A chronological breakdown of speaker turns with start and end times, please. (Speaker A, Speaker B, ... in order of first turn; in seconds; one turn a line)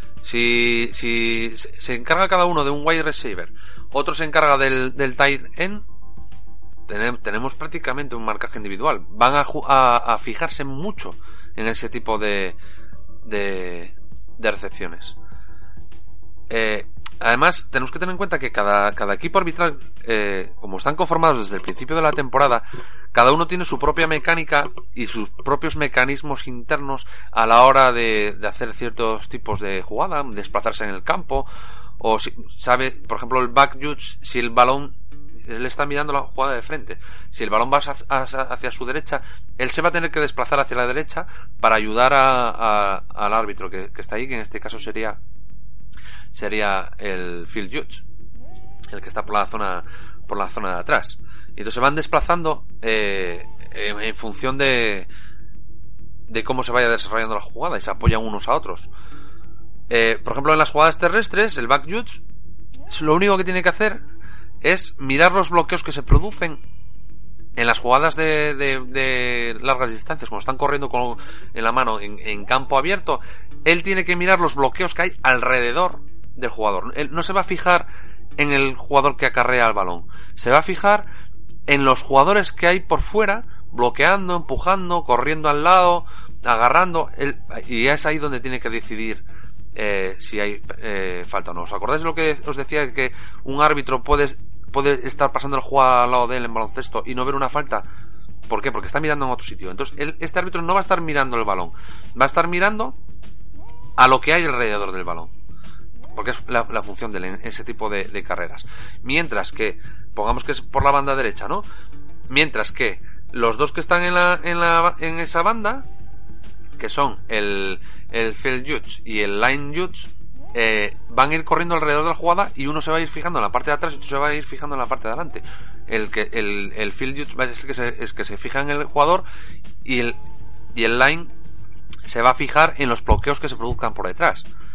Speaker A: 0.2-5.8
Speaker A: 6.9-12.6
Speaker A: 13.2-15.2
Speaker A: 16.5-31.5
Speaker A: 32.0-45.2
Speaker A: 46.3-48.0
Speaker A: 48.9-55.1
Speaker A: 56.3-58.9
Speaker A: 59.9-62.2
Speaker A: 62.9-64.0
Speaker A: 64.6-66.6
Speaker A: 67.6-81.1
Speaker A: 81.7-89.2
Speaker A: 89.8-97.8
Speaker A: 98.5-103.0
Speaker A: 104.0-105.3
Speaker A: 106.1-111.7
Speaker A: 112.3-115.9
Speaker A: 116.8-129.2
Speaker A: 129.8-130.2
Speaker A: 130.8-131.3
Speaker A: 132.1-134.5